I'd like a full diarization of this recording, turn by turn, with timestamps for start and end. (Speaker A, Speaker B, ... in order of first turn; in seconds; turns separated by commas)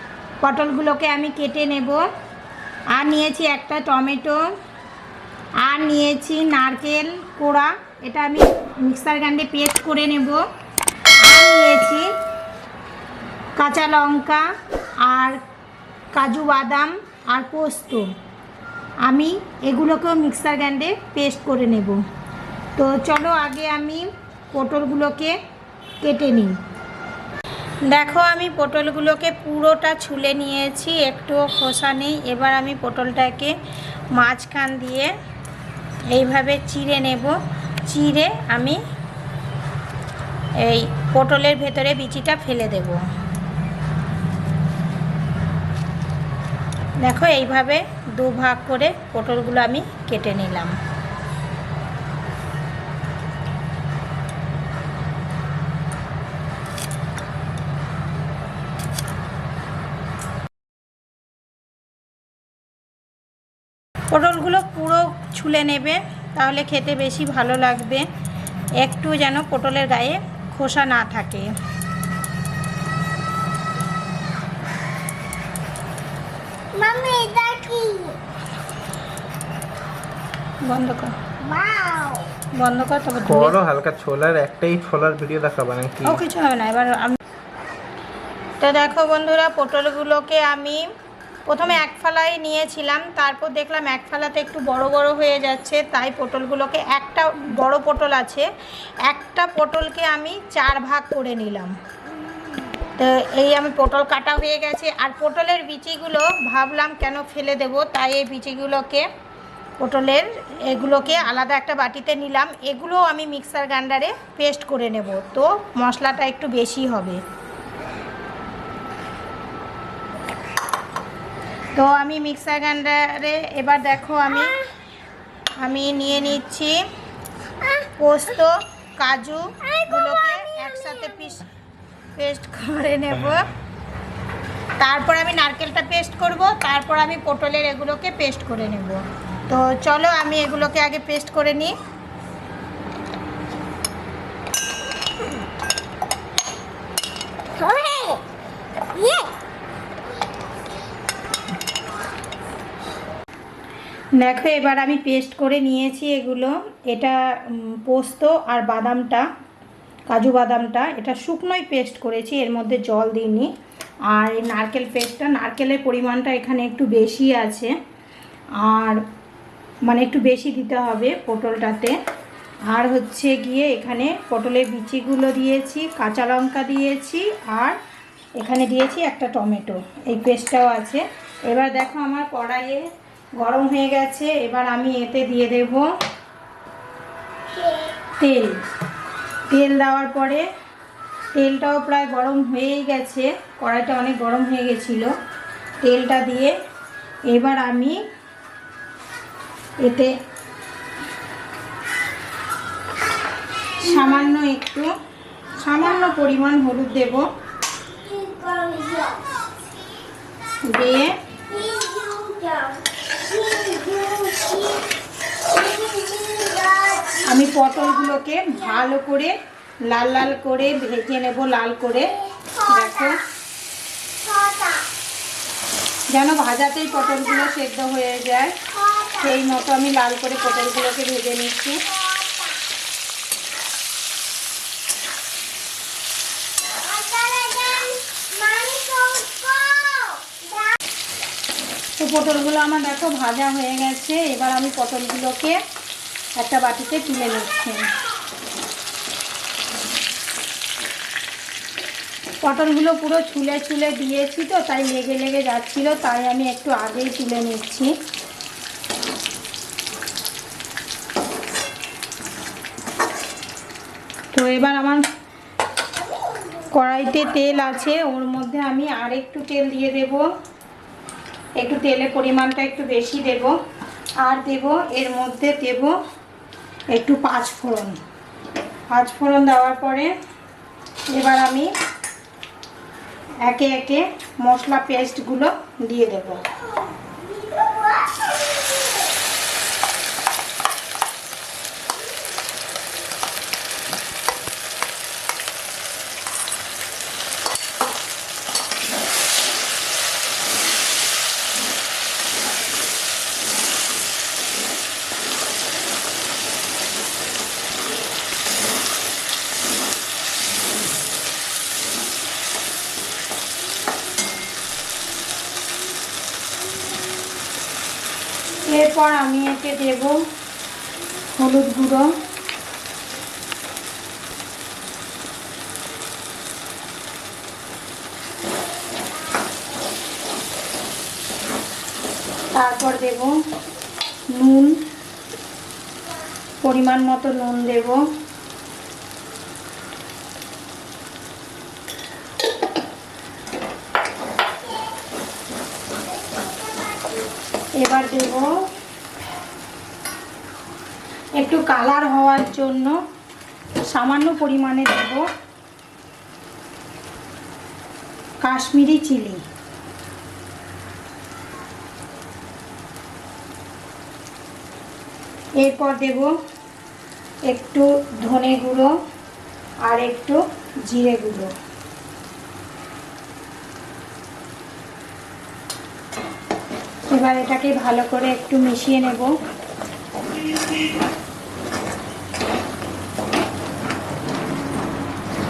Speaker A: 0.4-2.1, Speaker A: 2.9-4.5, Speaker A: 5.6-10.4, Speaker A: 11.2-12.1, Speaker A: 13.6-14.4, Speaker A: 15.0-15.4, Speaker A: 16.1-18.1, Speaker A: 19.1-22.0, Speaker A: 22.8-25.4, Speaker A: 26.0-26.6, Speaker A: 27.9-33.5, Speaker A: 34.1-35.1, Speaker A: 36.1-38.8, Speaker A: 40.6-43.0, Speaker A: 47.0-50.8, Speaker A: 64.1-68.1, Speaker A: 68.8-71.5, Speaker B: 76.7-78.2, Speaker A: 80.6-81.2, Speaker B: 81.4-82.3, Speaker A: 82.5-83.6, Speaker C: 83.2-86.2, Speaker A: 86.0-87.2, Speaker A: 88.6-90.9, Speaker A: 91.5-98.5, Speaker A: 99.0-101.7, Speaker A: 103.0-109.0, Speaker A: 109.8-117.2, Speaker A: 121.7-124.6, Speaker A: 125.6-126.8, Speaker A: 128.0-131.5, Speaker B: 129.7-131.0, Speaker A: 132.2-133.5, Speaker A: 134.8-141.7, Speaker B: 147.6-148.2, Speaker B: 149.0-149.3, Speaker A: 154.2-159.3, Speaker A: 160.1-163.5, Speaker A: 164.1-167.7, Speaker A: 168.6-169.0, Speaker A: 169.8-171.9, Speaker A: 172.7-177.8, Speaker A: 178.4-182.8, Speaker A: 183.4-185.9, Speaker A: 188.1-188.6, Speaker A: 189.5-190.5, Speaker A: 191.3-195.1, Speaker A: 195.8-196.5, Speaker A: 197.3-198.0, Speaker A: 199.8-200.1, Speaker A: 203.8-204.9, Speaker A: 205.5-207.3, Speaker B: 207.9-209.3, Speaker A: 210.7-211.1, Speaker B: 211.5-217.3, Speaker A: 217.2-219.3, Speaker A: 219.9-223.2, Speaker B: 222.5-223.1, Speaker B: 224.2-224.8, Speaker A: 226.1-231.8, Speaker B: 228.8-229.2, Speaker B: 231.9-232.5, Speaker B: 236.8-240.7, Speaker A: 242.0-245.6, Speaker A: 246.3-247.9, Speaker A: 252.4-257.9, Speaker A: 264.3-265.0, Speaker A: 266.7-270.2, Speaker A: 271.6-273.5, Speaker A: 274.2-275.9, Speaker A: 276.9-278.0, Speaker A: 278.9-280.1, Speaker A: 281.1-281.7, Speaker A: 283.4-286.5, Speaker B: 286.7-289.0, Speaker A: 318.6-320.2, Speaker A: 321.3-322.1, Speaker A: 332.5-333.4, Speaker A: 334.3-334.8, Speaker A: 336.6-338.0, Speaker A: 347.8-348.5, Speaker A: 351.4-352.9, Speaker A: 353.9-355.2, Speaker A: 358.4-359.4, Speaker A: 365.6-366.3, Speaker A: 367.5-368.9, Speaker A: 369.8-371.5, Speaker A: 377.1-379.3